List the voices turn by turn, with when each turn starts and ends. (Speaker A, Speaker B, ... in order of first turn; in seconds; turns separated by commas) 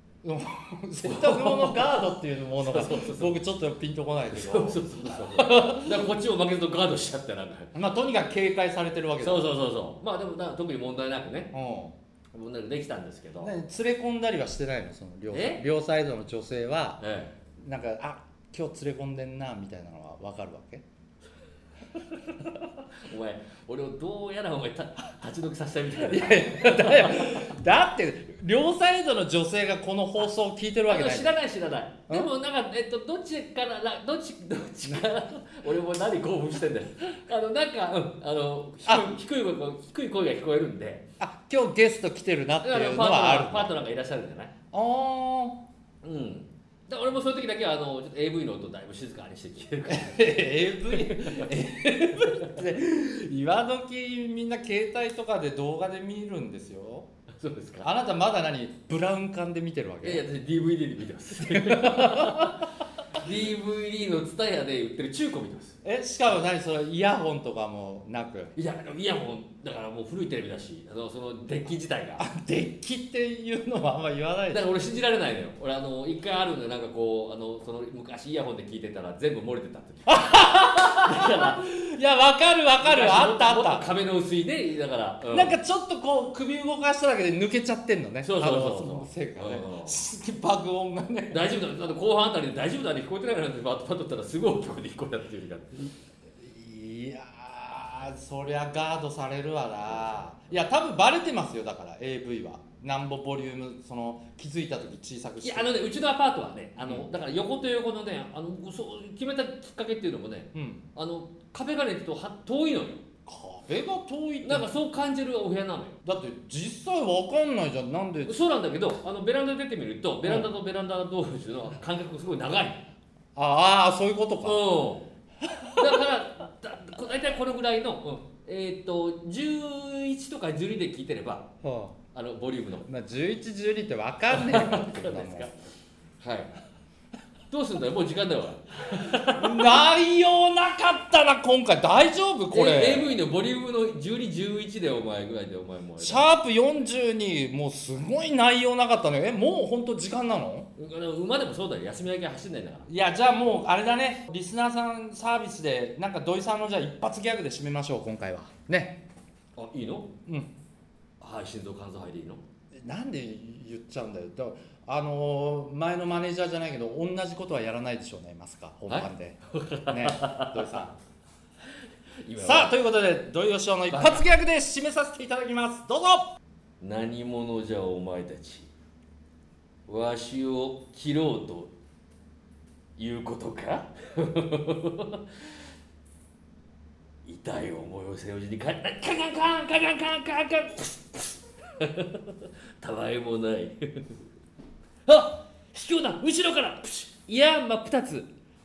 Speaker A: 0.2-6.1, Speaker B: 1.0-3.4, Speaker B: 4.3-7.7, Speaker A: 7.7-9.5, Speaker B: 9.2-11.5, Speaker A: 11.5-11.9, Speaker B: 12.3-13.5, Speaker A: 13.4-17.0, Speaker B: 15.3-15.6, Speaker B: 17.0-17.3, Speaker A: 17.6-20.8, Speaker B: 22.0-27.5, Speaker A: 26.0-31.4, Speaker B: 30.9-41.0, Speaker A: 38.8-39.1, Speaker A: 41.2-43.8, Speaker B: 42.6-44.5, Speaker A: 44.7-45.6, Speaker B: 46.0-51.5, Speaker A: 49.9-57.1, Speaker B: 57.4-57.9, Speaker A: 57.8-60.2, Speaker B: 60.0-65.8, Speaker A: 61.4-62.6, Speaker A: 65.8-68.5, Speaker B: 68.5-72.2, Speaker A: 72.2-74.7, Speaker B: 74.5-81.6, Speaker A: 80.1-83.9, Speaker B: 82.8-85.6, Speaker A: 85.3-91.4, Speaker B: 88.2-90.0, Speaker B: 91.3-95.9, Speaker A: 96.4-105.7, Speaker B: 105.4-113.0, Speaker A: 106.8-107.1, Speaker A: 110.5-110.9, Speaker A: 113.2-114.7, Speaker B: 114.4-116.0, Speaker A: 116.0-118.4, Speaker B: 118.2-122.8, Speaker A: 120.2-120.5, Speaker A: 123.3-124.6, Speaker B: 124.4-125.1, Speaker A: 125.5-126.0, Speaker B: 125.8-131.4, Speaker A: 131.6-132.0, Speaker B: 132.1-132.9, Speaker A: 132.8-135.5, Speaker B: 134.3-135.6, Speaker B: 136.2-136.5, Speaker B: 137.5-139.8, Speaker A: 139.2-143.2, Speaker B: 142.5-146.3, Speaker A: 146.0-150.7, Speaker B: 150.8-152.9, Speaker A: 152.9-159.0, Speaker B: 159.6-160.1, Speaker A: 160.3-160.5, Speaker B: 161.2-162.4, Speaker A: 162.7-170.9, Speaker B: 168.9-170.8, Speaker B: 172.2-172.7, Speaker A: 172.4-176.3, Speaker B: 173.9-174.2, Speaker B: 176.8-178.7, Speaker B: 179.9-181.7, Speaker B: 183.0-185.2, Speaker B: 187.2-194.2, Speaker B: 195.1-198.3